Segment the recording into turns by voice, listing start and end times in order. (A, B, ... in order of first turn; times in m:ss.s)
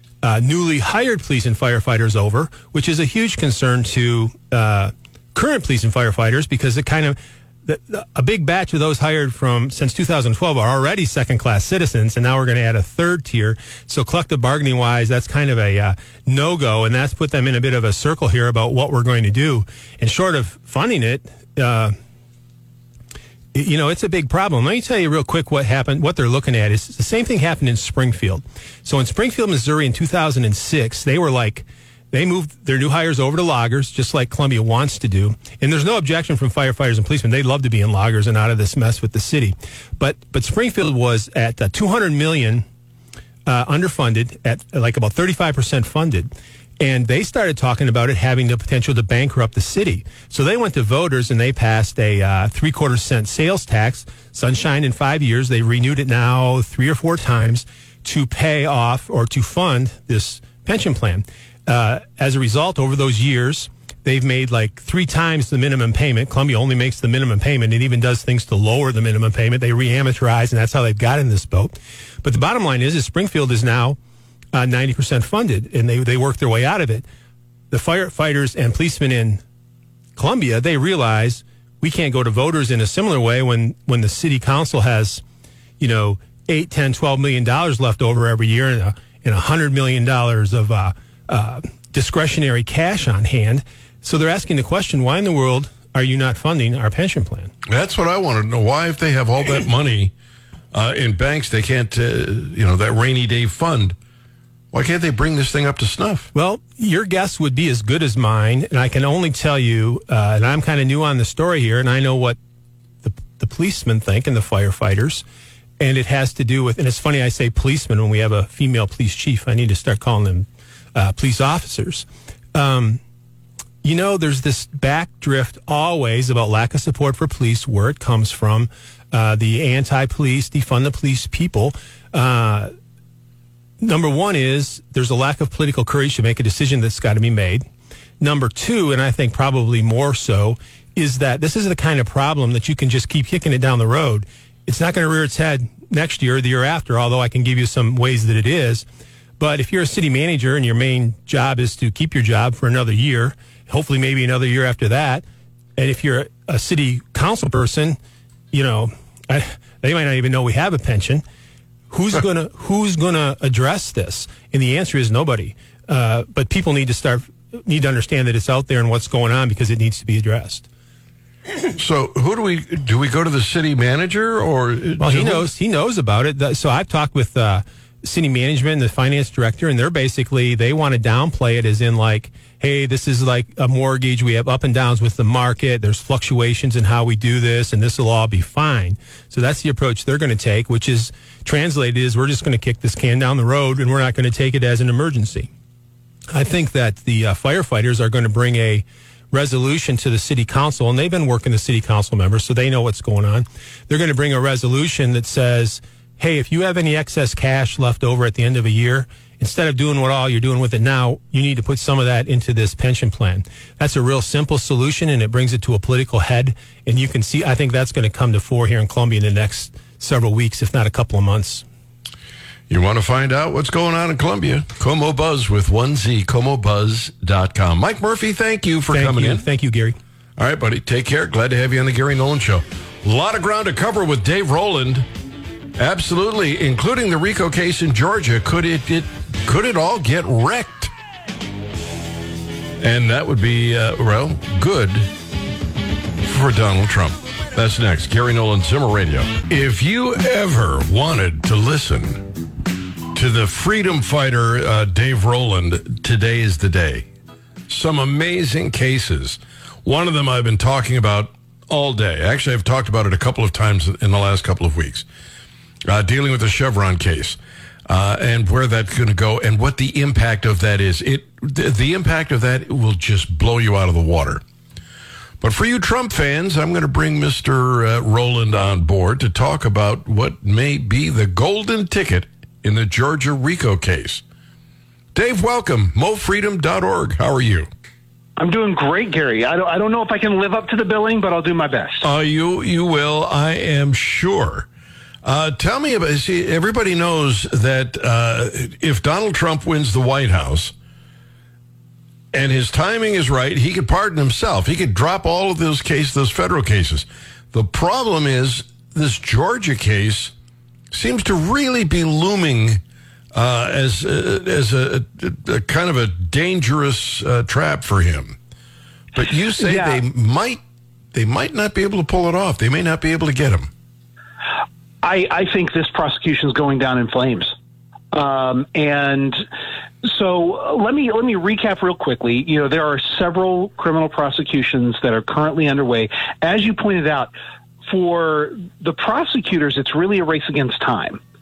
0:00.2-0:21.9 A
0:23.5-0:42.6 A
0:43.4-1:14.0 A
1:14.5-1:17.0 A
1:17.7-1:19.4 A
1:20.2-1:25.2 A
1:25.8-1:37.5 A
1:37.7-1:40.1 B
1:40.7-1:44.0 B
1:44.7-1:46.3 B
1:46.3-1:52.4 A
1:53.0-1:55.2 A
1:55.8-2:03.0 A
2:03.8-2:12.7 A
2:13.8-2:17.6 A
2:18.2-2:28.8 A
2:29.4-2:35.2 A
2:35.8-2:38.0 A
2:38.5-2:41.2 A
2:41.9-2:50.6 A
2:51.8-2:55.5 B
2:55.0-3:15.5 A
3:16.3-3:41.6 A
3:42.7-3:49.4 B
3:48.9-3:50.0 A
3:50.4-3:55.0 B
3:55.8-4:00.9 B
4:02.8-4:05.1 B
4:06.2-4:12.2 B
4:13.1-4:17.1 B
4:17.7-4:25.0 B
4:25.8-4:34.4 B
4:35.4-4:44.2 B
4:45.1-4:47.7 B
4:48.4-4:52.1 C
4:52.0-4:54.7 B
4:55.2-5:00.7 B
5:02.3-5:10.3 B
5:10.9-5:12.8 B
5:13.3-5:18.4 B
5:19.1-5:20.6 B
5:19.6-5:20.0 C
5:21.1-5:23.7 B
5:25.0-5:27.6 C
5:28.1-5:29.4 C
5:30.0-5:37.3 C
5:37.9-5:41.2 C